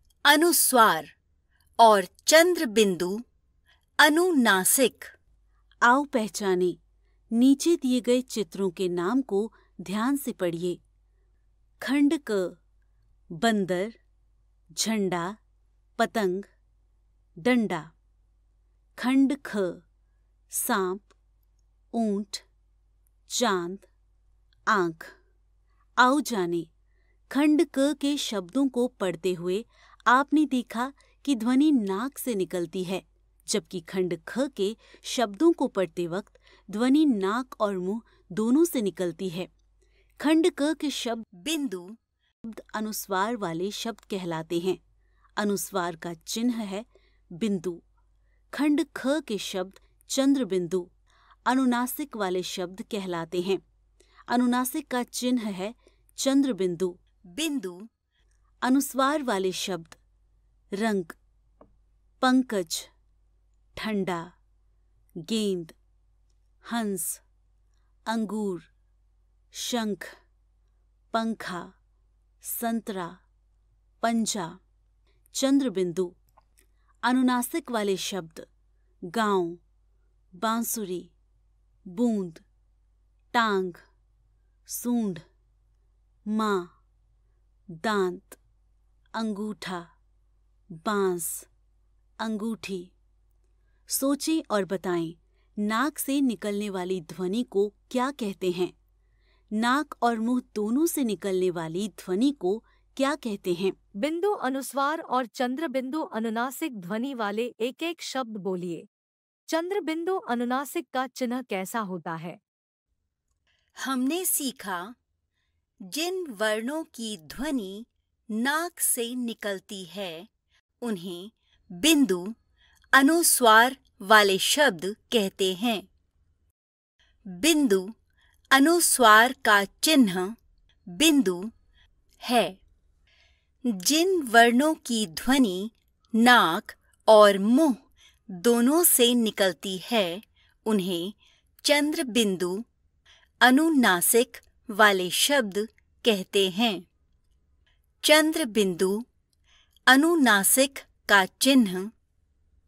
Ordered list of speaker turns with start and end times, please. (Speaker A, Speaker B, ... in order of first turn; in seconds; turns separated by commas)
Speaker A: 0.3-1.1, Speaker A: 1.8-3.1, Speaker A: 4.0-5.1, Speaker B: 5.8-6.8, Speaker B: 7.3-10.8, Speaker B: 11.8-12.6, Speaker B: 13.3-14.0, Speaker B: 14.8-15.4, Speaker B: 16.0-16.5, Speaker B: 17.4-17.9, Speaker B: 18.9-19.8, Speaker B: 20.5-21.1, Speaker B: 21.9-22.4, Speaker B: 23.3-23.9, Speaker B: 24.7-25.1, Speaker B: 26.0-26.7, Speaker B: 27.3-39.5, Speaker B: 40.2-41.2, Speaker A: 41.4-41.9, Speaker B: 42.4-44.8, Speaker B: 45.4-47.8, Speaker B: 48.5-50.9, Speaker B: 51.5-53.6, Speaker B: 54.3-57.0, Speaker A: 57.3-57.8, Speaker B: 58.6-60.0, Speaker B: 60.8-61.2, Speaker B: 62.2-62.9, Speaker B: 63.7-64.3, Speaker B: 65.2-65.8, Speaker B: 66.6-67.2, Speaker B: 68.1-68.7, Speaker B: 69.5-70.1, Speaker B: 71.1-71.7, Speaker B: 72.4-73.2, Speaker B: 74.0-74.6, Speaker B: 75.3-76.1, Speaker B: 77.0-78.5, Speaker B: 79.1-79.6, Speaker B: 80.4-81.1, Speaker B: 81.9-82.4, Speaker B: 83.3-83.8, Speaker B: 84.7-85.2, Speaker B: 86.3-86.7, Speaker B: 87.8-88.4, Speaker B: 89.1-89.9, Speaker B: 90.7-91.5, Speaker B: 92.2-92.9, Speaker B: 93.9-98.7, Speaker B: 99.5-103.8, Speaker C: 104.0-108.9, Speaker C: 109.5-112.4, Speaker A: 113.8-114.9, Speaker A: 115.9-120.3, Speaker A: 120.8-122.3, Speaker A: 123.0-125.8, Speaker A: 127.3-127.8, Speaker A: 128.5-130.3, Speaker A: 130.9-131.4, Speaker A: 132.2-132.6, Speaker A: 133.7-137.7, Speaker A: 138.4-142.6, Speaker A: 143.4-146.8, Speaker A: 148.0-148.9, Speaker A: 149.9-151.9